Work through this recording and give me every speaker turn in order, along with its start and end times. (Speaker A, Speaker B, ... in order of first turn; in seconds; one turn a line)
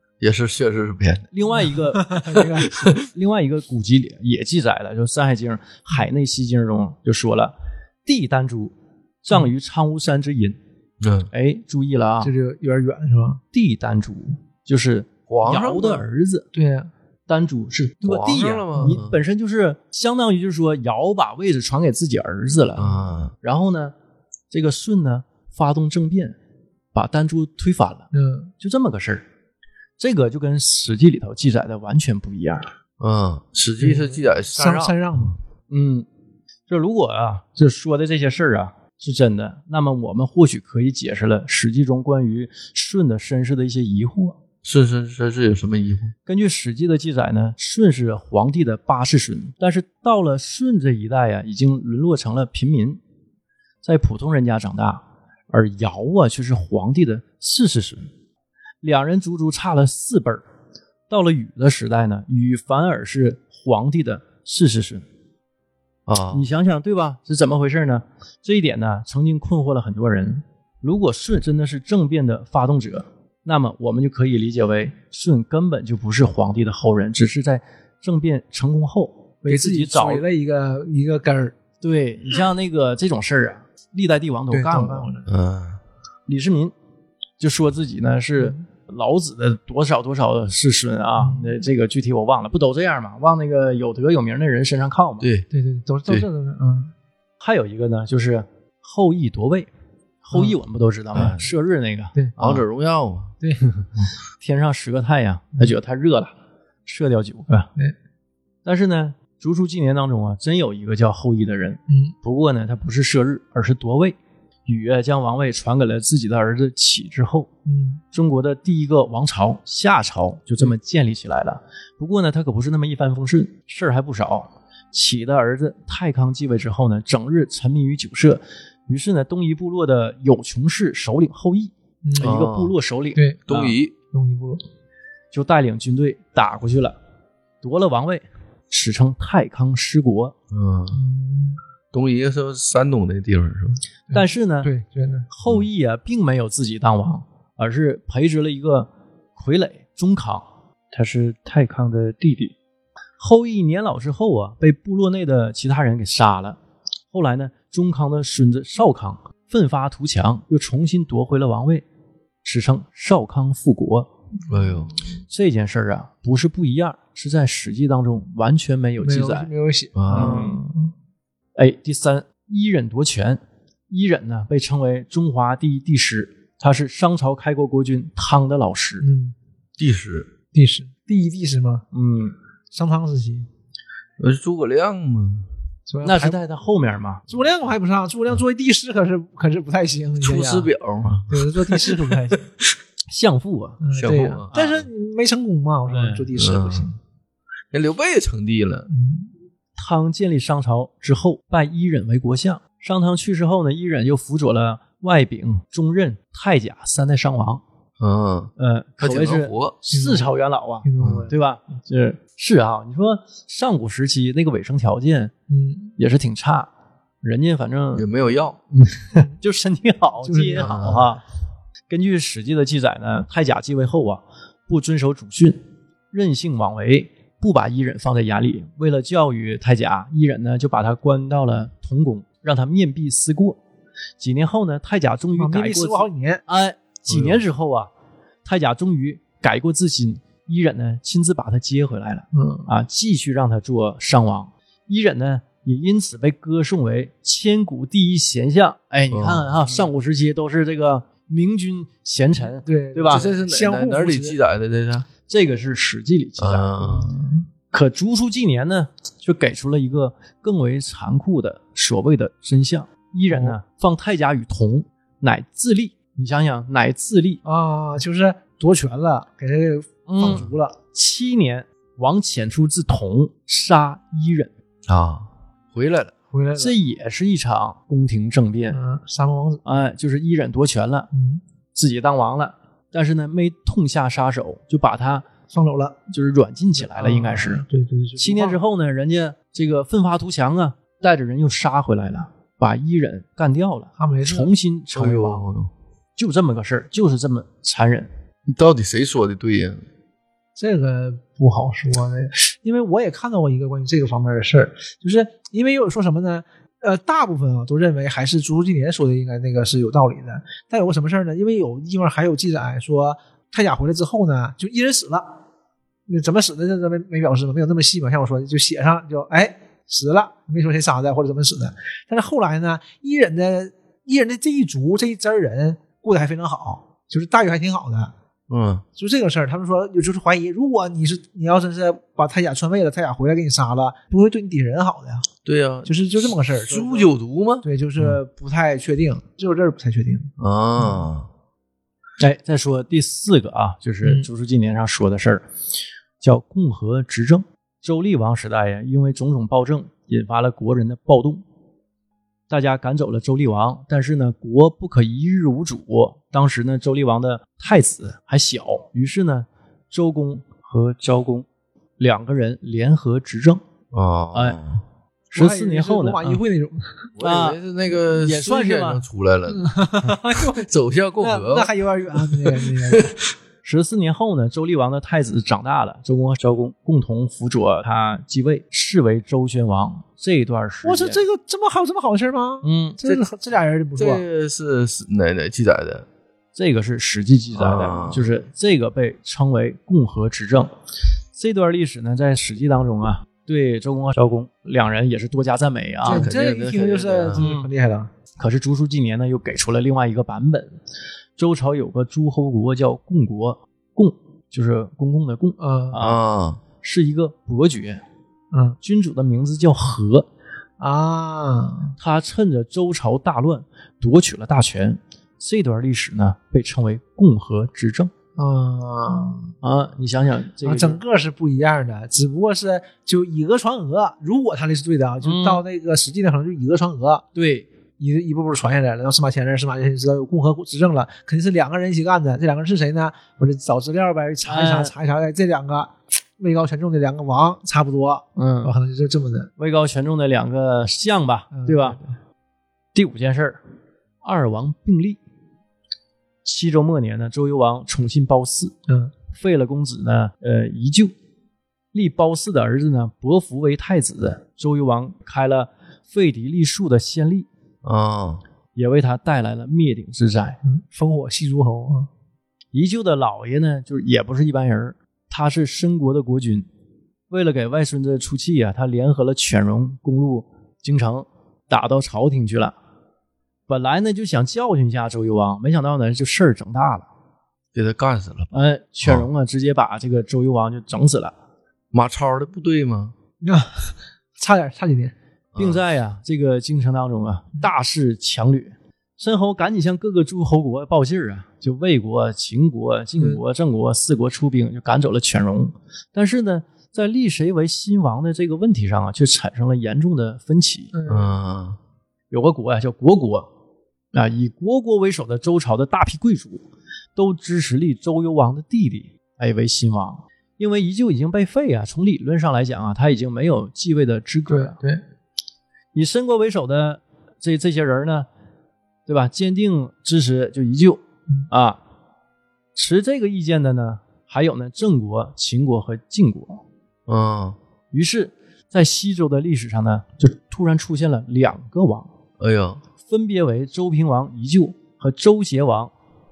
Speaker A: 0.2-1.3
Speaker B: 1.3-10.6
Speaker C: 1.6-2.9
Speaker A: 2.7-3.0
Speaker A: 11.0-11.3
Speaker B: 11.3-12.3
Speaker C: 12.2-13.4
Speaker B: 13.5-16.5
Speaker A: 15.3-16.0
Speaker C: 16.5-16.9
Speaker B: 17.3-23.9
Speaker A: 18.0-19.1
Speaker C: 18.8-19.0
Speaker A: 22.8-23.3
Speaker B: 24.5-26.4
Speaker B: 26.9-28.1
Speaker C: 28.1-28.5
Speaker B: 28.6-29.2
Speaker B: 30.0-32.7
Speaker A: 33.0-35.2
Speaker C: 33.8-35.4
Speaker B: 35.7-36.1
Speaker B: 36.7-44.4
Speaker A: 44.6-46.1
Speaker B: 46.2-53.0
Speaker B: 53.8-58.1
Speaker B: 58.8-60.4
Speaker B: 61.1-65.0
Speaker A: 66.1-66.5
Speaker B: 66.3-80.2
Speaker C: 79.5-81.5
Speaker B: 81.8-85.1
Speaker C: 84.5-85.3
Speaker A: 85.3-85.8
Speaker B: 86.3-86.7
Speaker B: 87.4-95.3
Speaker C: 91.2-91.5
Speaker A: 95.2-95.5
Speaker C: 95.5-96.9
Speaker B: 97.4-99.7
Speaker B: 100.2-102.6
Speaker C: 101.1-101.4
Speaker A: 101.2-101.4
Speaker A: 102.4-103.3
Speaker C: 103.4-103.9
Speaker B: 104.4-106.3
Speaker B: 106.8-107.7
Speaker B: 108.6-117.5
Speaker C: 111.9-112.1
Speaker C: 117.7-118.0
Speaker B: 118.1-133.8
Speaker C: 132.0-132.3
Speaker A: 132.2-132.7
Speaker C: 133.1-133.4
Speaker A: 133.5-133.9
Speaker C: 134.1-134.6
Speaker B: 135.3-137.0
Speaker B: 137.6-140.3
Speaker A: 140.5-141.0
Speaker C: 140.9-141.6
Speaker A: 141.9-143.8
Speaker C: 144.1-145.3
Speaker B: 144.1-144.7
Speaker B: 145.3-152.5
Speaker B: 153.2-156.6
Speaker B: 157.1-161.8
Speaker B: 162.4-164.1
Speaker C: 164.5-164.8
Speaker A: 164.5-164.9
Speaker B: 165.3-169.5
Speaker C: 169.0-170.9
Speaker A: 169.9-170.5
Speaker B: 170.1-170.6
Speaker B: 171.6-179.1
Speaker C: 179.0-179.3
Speaker A: 179.8-180.3
Speaker C: 180.5-181.8
Speaker B: 181.9-182.3
Speaker C: 182.7-183.5
Speaker A: 184.2-185.4
Speaker C: 185.9-186.4
Speaker B: 186.0-187.2
Speaker C: 187.3-190.7
Speaker A: 190.2-192.1
Speaker C: 191.3-192.5
Speaker B: 193.1-193.8
Speaker C: 193.8-196.9
Speaker A: 193.9-194.8
Speaker B: 195.9-196.3
Speaker A: 196.4-196.9
Speaker A: 197.7-198.9
Speaker C: 198.9-199.3
Speaker B: 199.8-207.6
Speaker A: 208.0-209.8
Speaker B: 208.6-215.3
Speaker C: 209.9-210.3
Speaker C: 210.8-211.3
Speaker A: 211.0-211.3
Speaker C: 215.5-215.9
Speaker B: 216.0-216.7
Speaker B: 217.2-218.1
Speaker A: 217.9-218.6
Speaker B: 218.7-221.2
Speaker C: 220.2-221.2
Speaker A: 220.6-221.0
Speaker B: 221.9-225.6
Speaker B: 226.1-233.6
Speaker B: 234.2-237.9
Speaker C: 235.3-236.4
Speaker A: 237.1-237.4
Speaker B: 238.4-253.3
Speaker C: 242.3-242.7
Speaker A: 249.1-249.5
Speaker C: 252.6-254.4
Speaker A: 253.1-255.1
Speaker B: 255.3-257.0
Speaker A: 256.4-257.1
Speaker C: 256.8-257.4
Speaker B: 257.7-267.4
Speaker C: 263.3-263.6
Speaker C: 267.4-270.8
Speaker B: 270.1-274.5
Speaker A: 274.9-276.1
Speaker C: 276.3-276.8
Speaker B: 276.5-278.8
Speaker C: 278.7-279.6
Speaker B: 279.6-281.1
Speaker C: 281.1-281.4
Speaker B: 281.7-285.2
Speaker C: 285.5-286.0
Speaker B: 286.1-287.6
Speaker C: 286.8-288.6
Speaker B: 288.2-295.4
Speaker C: 294.0-294.5
Speaker A: 294.9-295.7
Speaker B: 296.2-298.1
Speaker A: 298.5-299.8
Speaker C: 300.6-315.4
Speaker C: 316.1-328.1
Speaker A: 328.5-328.8
Speaker C: 328.9-335.3
Speaker A: 335.4-337.6
Speaker C: 335.8-337.1
Speaker C: 337.6-340.3
Speaker A: 340.4-341.3
Speaker B: 342.2-345.4
Speaker C: 344.0-344.3
Speaker B: 346.2-351.4
Speaker B: 352.5-361.5
Speaker B: 362.0-363.6
Speaker A: 363.9-364.8
Speaker B: 364.3-364.6
Speaker B: 365.3-366.4
Speaker C: 365.3-367.1
Speaker A: 367.2-373.2
Speaker B: 367.2-369.0
Speaker C: 369.5-370.7
Speaker C: 371.2-373.1
Speaker B: 373.6-381.2
Speaker C: 380.8-384.2
Speaker B: 382.6-383.0
Speaker A: 384.0-386.1
Speaker B: 386.5-390.7
Speaker A: 387.5-388.2
Speaker B: 391.3-396.3
Speaker C: 396.0-398.1
Speaker A: 396.1-397.4
Speaker B: 397.3-397.7
Speaker B: 398.4-400.8
Speaker B: 401.4-406.2
Speaker C: 405.6-406.0
Speaker A: 406.0-406.6
Speaker B: 406.8-408.0
Speaker C: 408.5-408.8
Speaker B: 408.8-410.3
Speaker C: 410.8-411.9
Speaker B: 412.0-418.1
Speaker C: 418.4-419.5
Speaker B: 419.6-421.0
Speaker C: 420.6-427.2
Speaker B: 425.2-425.6
Speaker B: 427.3-427.7
Speaker C: 428.0-439.5
Speaker B: 434.4-434.9
Speaker B: 438.4-438.7
Speaker B: 439.6-442.0
Speaker C: 441.5-442.1
Speaker B: 442.9-443.6
Speaker B: 444.2-445.2
Speaker B: 446.4-448.7
Speaker C: 448.9-449.1
Speaker B: 449.3-451.1
Speaker B: 451.9-457.5
Speaker A: 457.8-458.4
Speaker B: 458.7-460.6
Speaker C: 460.6-462.1
Speaker B: 462.7-466.7
Speaker B: 467.3-472.8
Speaker B: 473.7-477.1
Speaker A: 477.7-478.5
Speaker B: 478.5-481.3
Speaker A: 481.9-483.1
Speaker C: 483.4-485.1
Speaker A: 485.5-485.8
Speaker B: 485.6-500.9
Speaker C: 500.9-501.3
Speaker A: 501.1-501.8
Speaker B: 502.3-503.5
Speaker B: 504.1-506.6
Speaker B: 507.1-514.8
Speaker C: 514.5-515.0
Speaker B: 515.9-518.3
Speaker B: 519.1-521.8
Speaker B: 522.7-526.6
Speaker A: 527.1-527.6
Speaker B: 527.9-532.1
Speaker A: 532.4-532.8
Speaker B: 533.0-535.9